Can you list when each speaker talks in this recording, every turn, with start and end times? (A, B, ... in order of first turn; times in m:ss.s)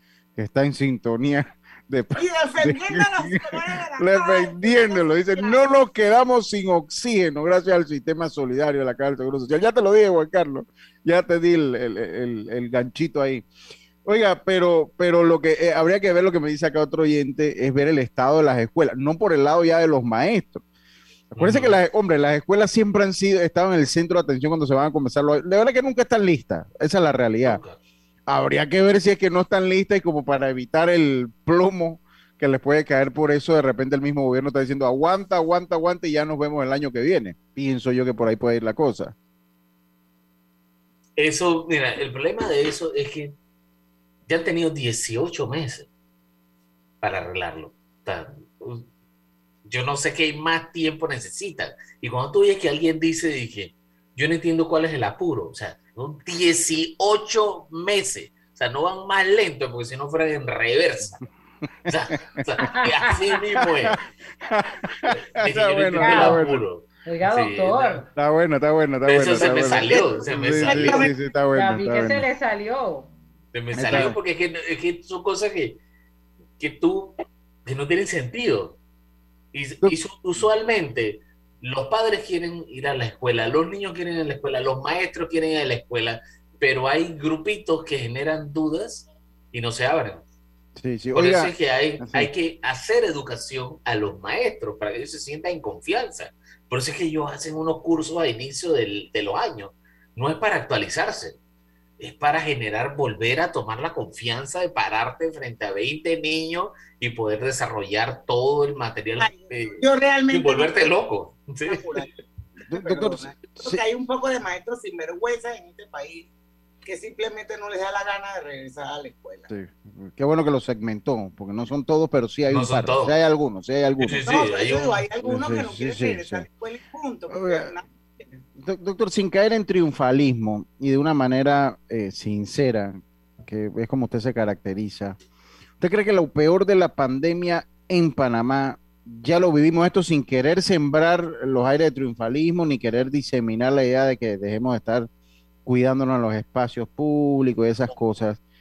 0:00.4-0:13.4 A
0:02.2-0:05.6 B
0:14.0-0:20.6 A
0:21.3-0:27.6 A
0:21.4-0:21.8 C
0:27.4-0:27.8 C
0:28.3-0:39.1 A
0:41.2-0:43.3 C
0:44.3-0:45.9 C
0:47.0-0:48.8 C
0:49.6-1:01.2 C
1:01.9-1:04.0 C
1:02.8-1:03.1 D
1:03.6-1:06.6 A
1:05.4-1:08.0 C
1:06.0-1:06.4 D
1:07.0-1:08.0 D
1:08.1-1:12.2 A
1:09.0-1:11.1 C
1:09.8-1:10.1 B
1:10.6-1:11.1 B
1:11.5-1:13.1 D
1:13.5-1:15.8 C
1:13.7-1:14.2 A
1:16.6-1:18.8 C
1:19.5-1:30.2 C
1:30.8-1:32.3 A
1:31.1-1:41.4 C
1:42.0-1:52.0 C
1:49.2-1:50.9 B
1:51.7-1:52.1 B
1:52.7-1:53.8 A
1:52.7-1:56.3 B
1:56.8-1:59.5 B
1:59.5-2:04.3 A
2:02.5-2:03.2 C
2:04.0-2:05.0 C
2:04.2-2:08.4 B
2:05.2-2:06.4 A
2:07.3-2:07.7 A
2:08.6-2:15.2 A
2:15.8-2:25.1 A
2:25.6-2:28.4 A